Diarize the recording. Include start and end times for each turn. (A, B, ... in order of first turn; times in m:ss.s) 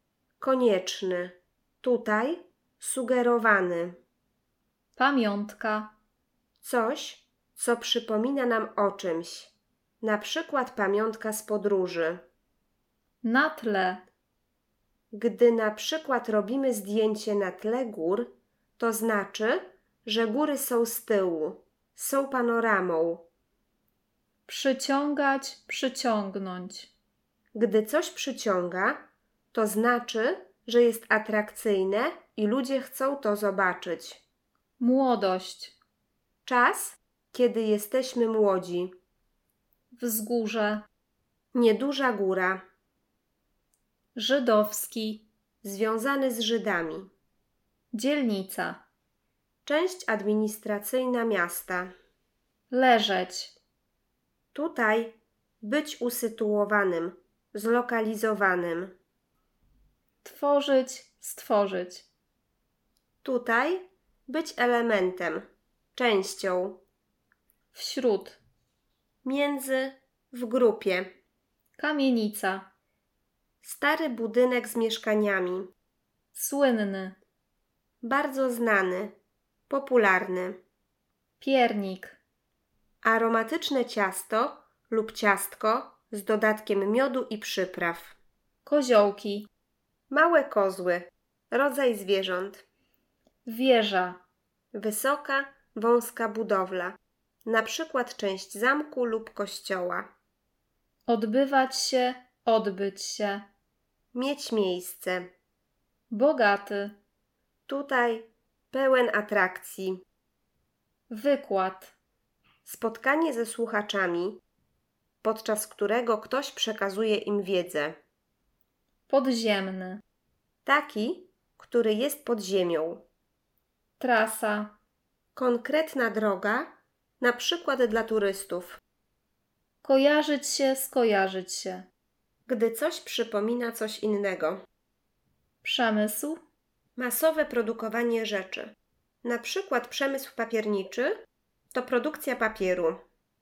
0:00.4-0:04.0 A
0:05.0-0:05.9 B
0:06.6-0:12.2 A
0:13.2-0:14.0 B
0:15.1-0:23.3 A
0:24.5-0:26.9 B
0:27.5-0:34.2 A
0:34.8-0:35.8 B
0:36.4-0:38.9 A
0:39.9-0:40.8 B
0:41.5-0:42.6 A
0:44.1-0:45.2 B
0:45.6-0:47.1 A
0:47.9-0:48.8 B
0:49.6-0:51.9 A
0:52.7-0:53.5 B
0:54.5-0:58.9 A
1:00.2-1:02.0 B
1:03.2-1:06.8 A
1:07.7-1:08.4 B
1:09.2-1:11.1 A
1:11.8-1:12.7 B
1:13.6-1:15.7 A
1:16.3-1:17.2 B
1:18.0-1:19.1 A
1:19.7-1:20.6 A
1:21.4-1:22.2 B
1:23.0-1:28.2 A
1:28.6-1:29.5 B
1:30.1-1:32.6 A
1:33.4-1:34.2 B
1:34.7-1:40.1 A
1:41.0-1:43.5 B
1:44.1-1:45.3 A
1:46.1-1:47.0 B
1:47.7-1:50.0 A
1:51.1-1:51.9 B
1:52.6-1:54.4 A
1:55.2-1:58.0 A
1:59.1-2:00.0 B
2:00.6-2:03.0 A
2:04.0-2:04.8 B
2:05.4-2:08.8 A
2:09.8-2:11.9 B
2:12.5-2:14.6 A
2:15.6-2:16.4 B
2:17.0-2:21.1 A
2:21.7-2:23.0 A